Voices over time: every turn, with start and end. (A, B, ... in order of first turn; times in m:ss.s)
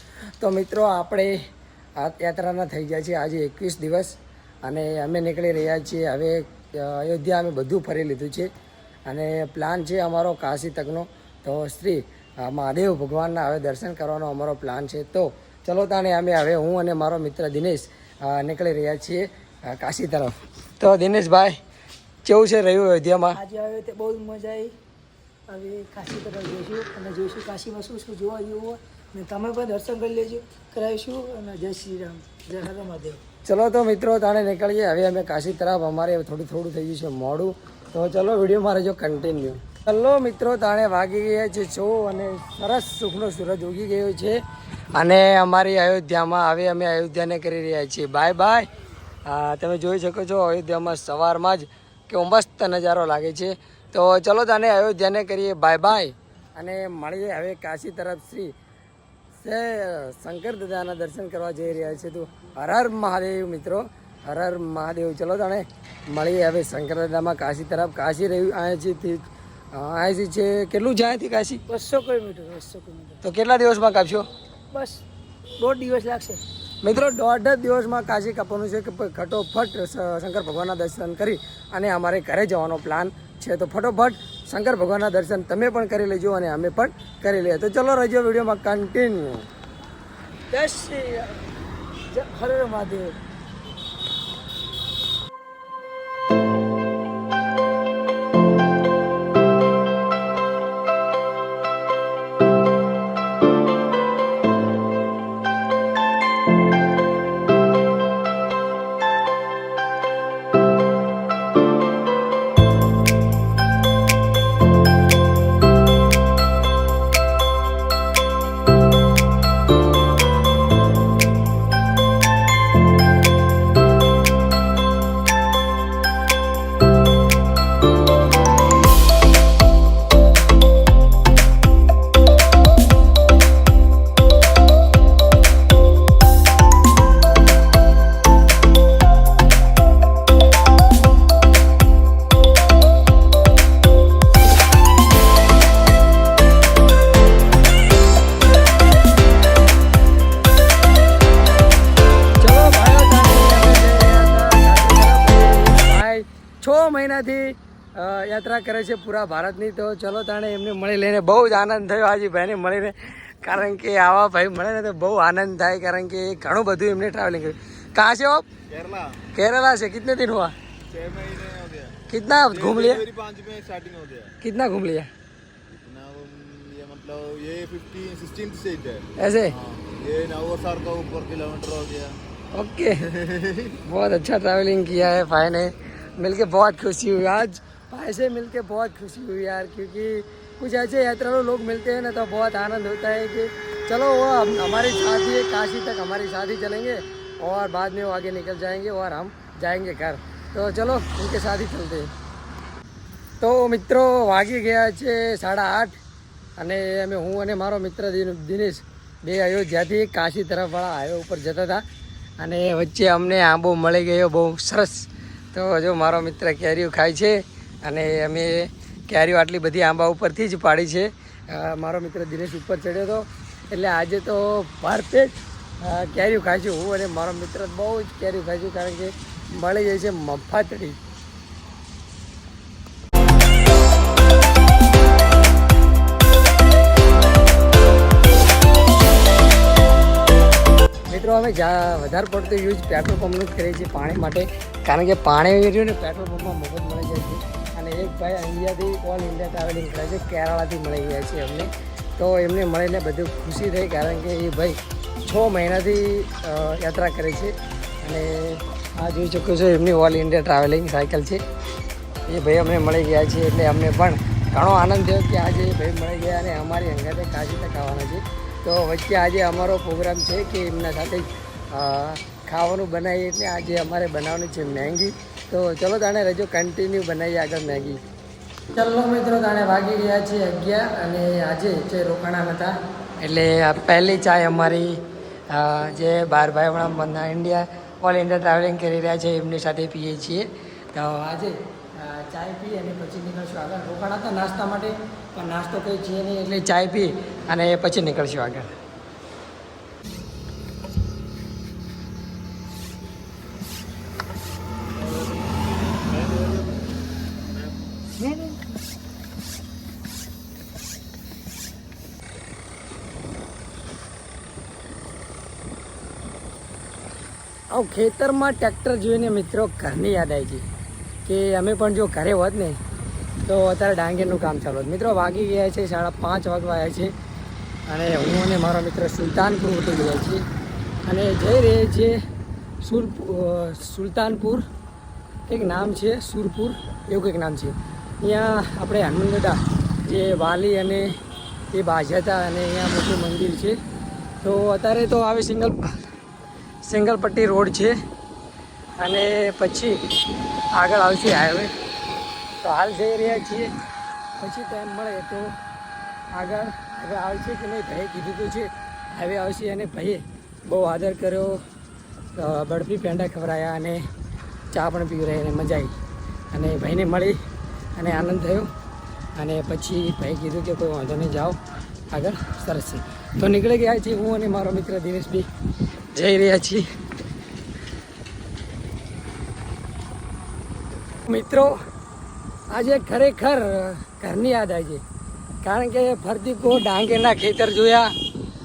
0:00.4-0:01.4 A
0:02.0-0:04.2 A
0:04.7-0:08.5 A
0:09.1-0:21.6 A
0:22.2-0:23.4 A
0:23.4-0:24.7 B
0:23.8-0:24.4 C
0:25.5-0:33.2 B
0:29.2-0:31.8 C
0:32.3-0:32.9 C
0:33.4-0:44.4 A
0:44.9-0:48.7 A
0:49.3-0:58.6 A
0:59.4-1:11.6 A
1:11.7-1:13.2 B
1:11.8-1:12.8 C
1:13.2-1:14.3 A
1:15.6-1:16.4 B
1:15.6-1:16.3 C
1:16.8-1:29.5 A
1:30.5-1:31.3 B
1:30.6-1:31.1 C
1:32.1-1:33.0 C
1:32.3-1:33.2 B
2:32.4-2:48.5 A
2:48.7-2:49.1 C
2:49.3-2:50.6 A
2:50.9-2:51.9 C
2:52.1-2:53.0 A
2:52.5-2:54.3 C
2:54.4-2:55.1 A
2:55.7-2:58.9 C
2:57.6-2:59.0 B
2:59.2-2:59.6 A
2:59.7-3:02.1 C
3:02.5-3:03.1 A
3:03.8-3:22.1 A
3:23.4-3:26.0 A
3:26.6-3:31.8 A
3:32.4-3:51.0 A
4:01.1-4:21.4 A
4:22.3-4:38.0 A
4:38.7-4:58.8 A
5:05.0-5:06.8 C
5:08.2-5:08.5 C
5:17.7-5:20.6 A
5:21.2-5:22.8 A
5:23.5-5:27.1 A
5:27.9-5:30.4 A
5:31.1-5:32.2 A
5:32.8-5:34.6 A
5:35.5-5:41.1 A
5:41.7-5:43.8 A
5:44.4-5:46.0 A
5:46.8-5:48.0 A
5:49.0-5:50.0 A
5:50.7-5:51.7 A
5:52.6-5:53.7 A
5:54.4-5:55.5 A
5:56.3-6:01.6 A
6:02.4-6:04.0 A
6:04.7-6:06.0 A
6:06.5-6:07.4 A
6:08.0-6:08.7 A
6:09.4-6:11.6 A
6:12.1-6:15.5 A
6:16.1-6:16.9 A
6:21.2-6:21.8 A
6:22.7-6:25.0 A
6:25.6-6:28.2 A